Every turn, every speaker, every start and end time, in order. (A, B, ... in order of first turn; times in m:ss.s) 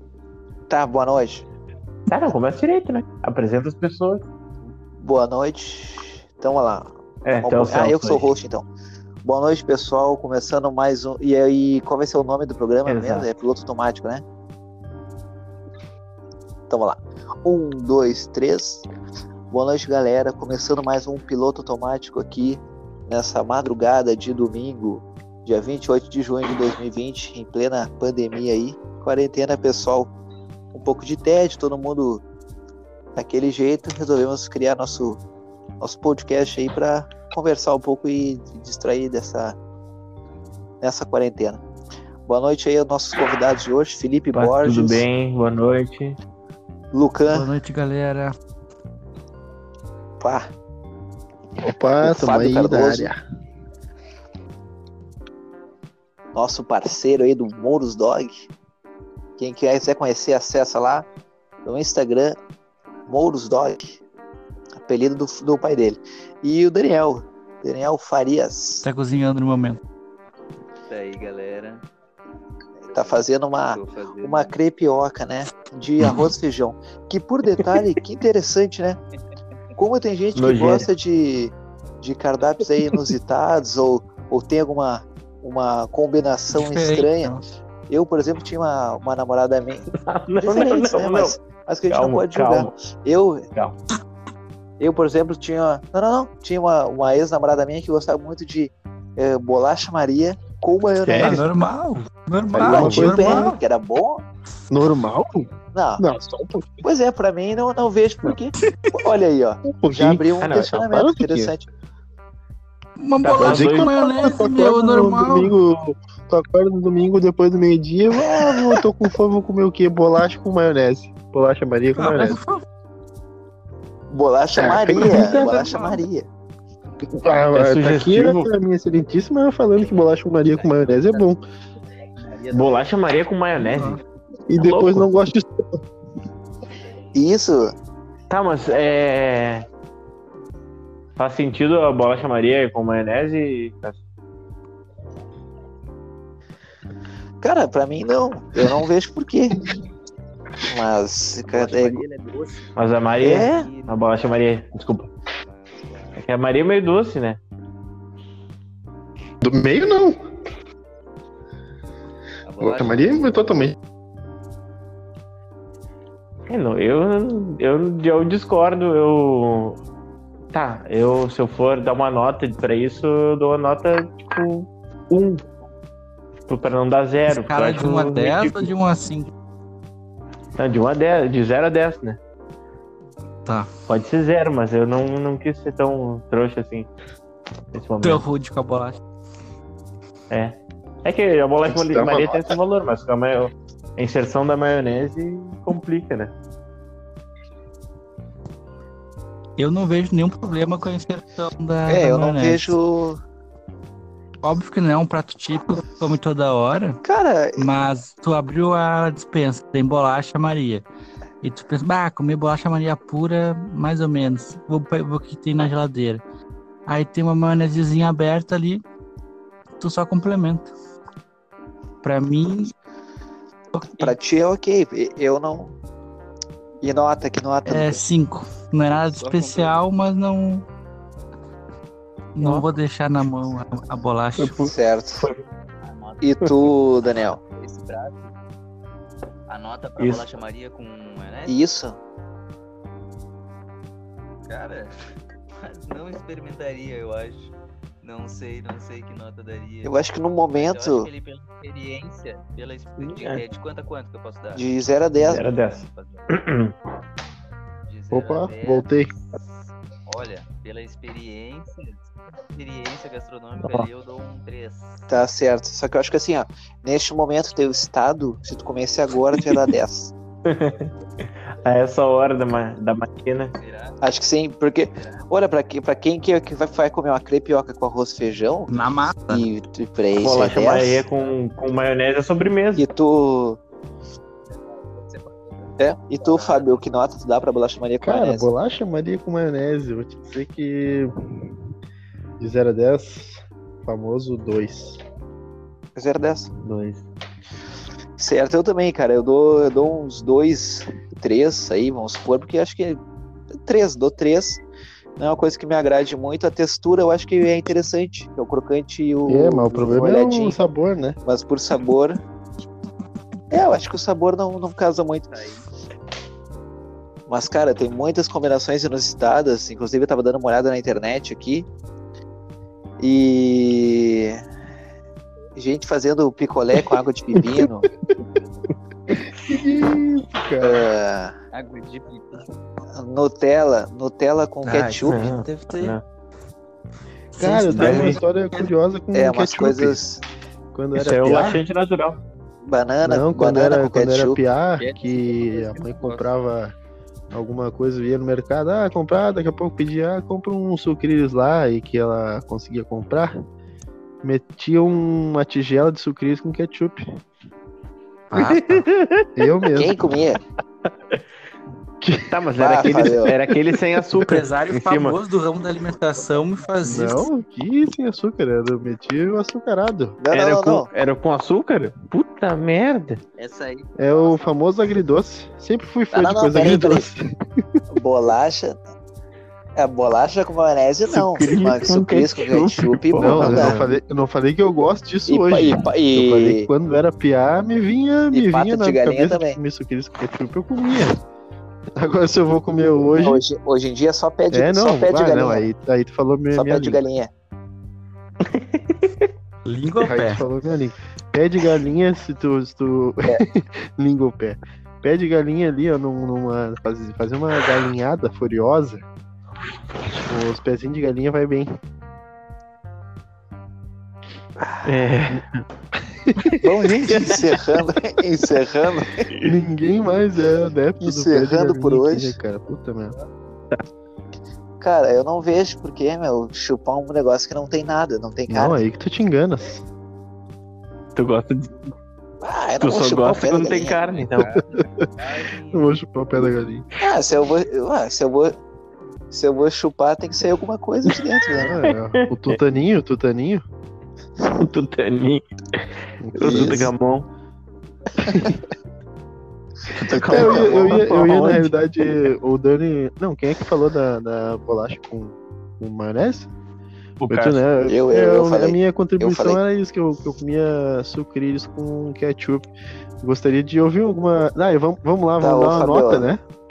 0:00.7-0:01.5 A
0:02.1-0:04.2 B
0:05.0-0:06.9 A
0:07.2-0:08.3 B
0:07.4-0:08.7 A
0:09.2-0:14.2 A
0:12.9-0:13.3 B
0:16.7-0:18.8 A
0:19.5-0:30.1 A
0:30.7-0:32.2 A
0:33.2-0:35.2 A
0:35.8-0:39.6 A
0:40.8-0:41.6 A
0:42.3-0:45.0 A
0:44.3-0:46.2 B
0:46.9-0:47.5 A
0:47.3-0:48.4 C
0:50.2-0:50.5 A
0:51.6-0:53.2 D
0:52.0-0:53.1 A
0:56.3-0:58.5 A
0:59.4-1:01.1 A
1:01.6-1:02.4 A
1:03.1-1:04.0 A
1:04.8-1:08.9 A
1:08.8-1:09.8 C
1:10.9-1:11.8 E
1:12.9-1:19.0 A
1:12.9-1:14.5 E
1:19.8-1:27.4 A
1:20.4-1:20.9 B
1:26.5-1:27.4 C
1:27.9-1:29.9 A
1:29.9-1:31.4 B
1:30.4-1:33.5 A
1:31.9-1:32.7 B
1:34.8-1:41.5 A
1:41.0-1:41.4 B
1:41.2-1:43.6 C
1:42.5-1:43.6 D
1:42.6-1:44.2 A
1:42.7-1:43.0 B
1:44.7-1:46.8 D
1:45.7-1:46.0 A
1:46.8-1:51.7 A
1:49.8-1:51.5 D
1:50.4-1:50.8 B
1:53.0-1:55.6 C
1:53.2-1:53.9 B
1:53.4-2:02.4 D
1:58.2-1:58.7 A
2:02.0-2:02.6 C
2:04.1-2:06.3 A
2:04.6-2:05.7 D
2:05.2-2:06.0 C
2:07.1-2:11.4 D
2:07.5-2:08.5 B
2:09.8-2:11.4 E
2:12.2-2:12.8 E
2:12.5-2:14.0 B
2:13.6-2:14.0 C
2:14.5-2:15.8 D
2:14.6-2:15.1 B
2:17.1-2:17.7 A
2:18.3-2:19.7 B
2:21.2-2:24.0 B
2:27.4-2:29.6 A
2:30.6-2:32.0 A
2:31.5-2:34.4 E
2:32.8-2:35.1 B
2:33.2-2:33.6 A
2:35.4-2:36.2 E
2:36.2-2:37.4 B
2:39.4-2:40.2 D
2:42.4-2:43.4 E
2:42.6-2:43.8 D
2:46.5-2:49.8 B
2:50.5-2:55.4 B
2:56.5-2:58.7 B
2:57.3-2:59.3 C
3:00.6-3:02.2 B
3:03.4-3:03.7 C
3:03.9-3:06.9 B
3:07.7-3:08.2 B
3:08.0-3:09.0 C
3:10.3-3:16.3 B
3:11.7-3:12.6 D
3:19.6-3:22.8 C
3:21.9-3:23.2 A
3:24.4-3:27.0 C
3:27.0-3:27.7 A
3:27.6-3:30.8 C
3:31.4-3:36.2 C
3:36.9-3:38.8 C
3:39.8-3:40.7 C
3:42.0-3:42.7 C
3:43.7-3:44.2 C
3:43.9-3:45.8 A
3:46.8-3:48.0 A
3:47.7-3:50.7 C
3:49.0-3:49.8 E
3:52.4-3:54.7 C
3:54.6-3:55.3 A
3:55.8-3:56.2 E
3:56.2-3:57.4 A
3:57.0-3:58.3 E
3:59.5-4:01.6 E
4:00.0-4:00.3 B
4:01.5-4:02.0 A
4:04.5-4:05.0 E
4:05.6-4:10.0 E
4:09.8-4:11.1 A
4:10.5-4:14.6 E
4:13.0-4:13.4 B
4:14.6-4:15.4 A
4:15.2-4:16.8 B
4:15.3-4:16.3 E
4:17.9-4:18.9 E
4:18.1-4:19.1 D
4:20.1-4:25.0 E
4:23.6-4:23.9 B
4:25.1-4:30.1 A
4:30.5-4:33.5 B
4:33.6-4:34.0 E
4:34.0-4:41.0 A
4:35.0-4:35.2 E
4:38.7-4:39.5 C
4:40.2-4:42.9 B
4:41.1-4:41.4 E
4:42.8-4:43.6 A
4:44.5-4:46.8 E
4:45.8-4:48.5 A
4:48.0-4:51.5 D
4:52.4-4:55.0 D
4:56.0-4:56.5 A
4:56.5-4:57.0 B
4:58.2-5:03.0 A
5:03.5-5:04.6 A
5:05.2-5:10.6 A
5:09.3-5:11.2 D
5:11.3-5:12.2 A
5:13.5-5:15.4 A
5:15.3-5:15.7 E
5:17.3-5:21.7 A
5:23.0-5:24.4 A
5:25.6-5:27.9 A
5:29.1-5:30.9 D
5:30.6-5:31.4 A
5:31.5-5:32.4 E
5:32.9-5:35.3 A
5:34.6-5:36.0 C
5:35.1-5:36.0 B
5:37.4-5:38.7 C
5:37.4-5:40.0 D
5:37.8-5:38.2 B
5:39.1-5:40.2 A
5:40.7-5:41.6 D
5:41.0-5:42.2 B
5:42.6-5:44.4 A
5:43.0-5:46.8 D
5:44.8-5:46.3 E
5:47.3-5:53.4 D
5:54.2-5:57.1 D
5:58.3-5:58.8 C
5:58.3-5:59.3 B
5:59.4-6:00.0 D
5:59.8-6:00.4 A
6:02.0-6:02.4 D
6:02.3-6:05.2 B
6:02.6-6:03.4 A
6:04.2-6:07.3 C
6:06.8-6:10.2 D
6:10.2-6:10.9 A
6:10.3-6:13.2 B
6:13.4-6:14.6 E
6:14.0-6:17.3 D
6:16.1-6:17.1 A
6:17.9-6:18.8 A
6:19.8-6:23.8 A
6:21.1-6:23.9 B
6:23.2-6:31.2 D
6:25.3-6:26.7 A
6:28.3-6:29.6 A
6:32.0-6:33.4 D
6:33.2-6:35.7 A
6:34.5-6:37.0 D
6:36.5-6:37.3 A
6:38.4-6:39.3 B
6:39.6-6:40.4 C
6:40.0-6:49.0 D
6:50.3-6:51.7 D
6:54.6-6:55.6 B
6:56.1-6:56.6 D
6:56.4-6:57.6 B
6:56.6-6:59.3 A
6:59.3-6:59.5 B
6:59.4-7:03.2 D
7:01.0-7:02.4 A
7:04.8-7:08.8 A
7:08.5-7:09.8 D
7:11.2-7:11.9 B
7:12.4-7:14.0 A
7:12.8-7:14.5 B
7:14.0-7:16.0 E
7:14.4-7:15.1 D
7:15.7-7:16.8 D
7:17.0-7:18.6 A
7:19.3-7:21.8 A
7:21.6-7:23.6 D
7:24.6-7:27.3 B
7:26.2-7:26.9 D
7:26.4-7:26.9 A
7:28.2-7:28.5 A
7:28.3-7:28.6 D
7:29.9-7:31.7 B
7:30.1-7:31.0 A
7:30.2-7:36.5 D
7:37.2-7:37.6 B
7:37.3-7:42.7 D
7:37.8-7:39.6 A
7:43.2-7:46.4 D
7:45.4-7:46.3 A